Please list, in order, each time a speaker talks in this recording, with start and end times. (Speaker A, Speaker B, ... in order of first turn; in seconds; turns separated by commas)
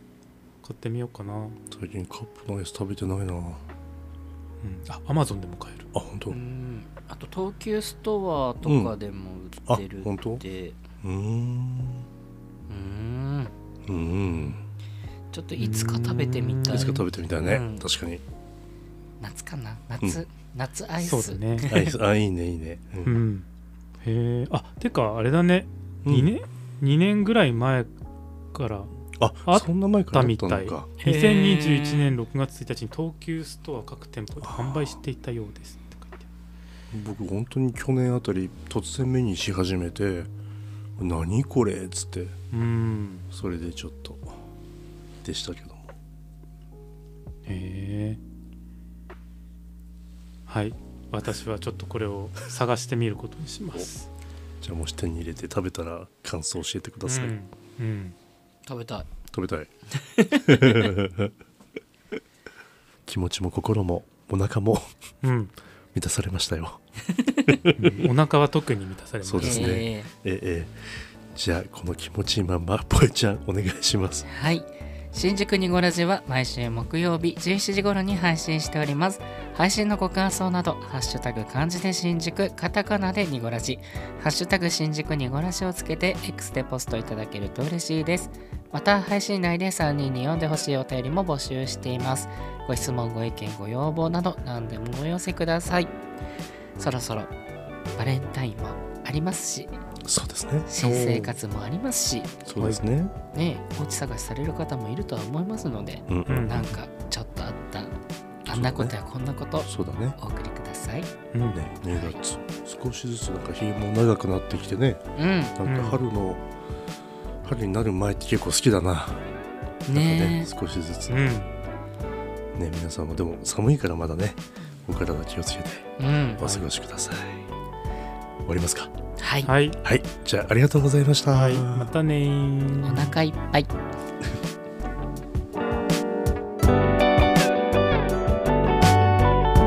Speaker A: 0.6-1.6, Speaker B: 1.7-3.6, Speaker A: 4.6-5.9, Speaker B: 5.9-6.4, Speaker C: 6.3-10.8, Speaker B: 8.6-8.9, Speaker B: 9.7-10.4, Speaker B: 11.0-12.1, Speaker C: 12.7-13.5, Speaker B: 13.9-14.6, Speaker C: 15.3-17.9, Speaker A: 15.6-17.0, Speaker B: 16.7-18.2, Speaker C: 19.2-21.9, Speaker A: 21.0-21.7, Speaker B: 21.6-23.2, Speaker A: 23.0-23.4, Speaker A: 24.0-27.9, Speaker B: 26.0-26.3, Speaker A: 28.5-28.9, Speaker B: 29.2-30.9, Speaker A: 29.5-36.3, Speaker C: 31.0-32.2, Speaker B: 34.4-35.0, Speaker B: 36.9-40.3, Speaker B: 41.0-42.4, Speaker A: 42.5-43.3, Speaker B: 43.3-44.4, Speaker B: 45.2-45.9, Speaker A: 47.5-48.2, Speaker A: 50.5-54.1, Speaker B: 54.6-57.3, Speaker A: 57.0-58.1, Speaker C: 58.6-59.1, Speaker B: 59.3-59.7, Speaker C: 60.0-60.9, Speaker B: 60.3-61.3, Speaker B: 63.0-64.8, Speaker A: 65.2-65.5, Speaker B: 65.9-66.8, Speaker C: 67.1-67.6, Speaker B: 67.5-68.1, Speaker A: 67.7-69.8, Speaker B: 69.2-74.3, Speaker C: 69.4-70.1, Speaker C: 74.3-95.9, Speaker C: 96.8-97.3, Speaker C: 98.0-99.8, Speaker B: 100.0-101.4, Speaker C: 100.7-102.5, Speaker B: 102.5-103.2, Speaker C: 103.3-111.1, Speaker B: 106.1-106.8, Speaker A: 106.3-106.6, Speaker B: 108.5-108.9, Speaker B: 109.6-110.2, Speaker A: 111.3-111.6, Speaker B: 111.5-115.0, Speaker C: 111.9-112.2, Speaker C: 115.2-115.5, Speaker B: 115.5-116.4, Speaker A: 115.6-116.0, Speaker B: 117.4-119.2, Speaker C: 119.9-120.5, Speaker B: 119.9-121.3, Speaker A: 121.1-121.5, Speaker B: 122.5-127.4, Speaker C: 126.0-126.5, Speaker B: 128.4-128.9, Speaker C: 129.2-129.5, Speaker A: 129.4-129.8, Speaker B: 129.8-131.9, Speaker A: 131.3-133.1, Speaker C: 132.8-133.7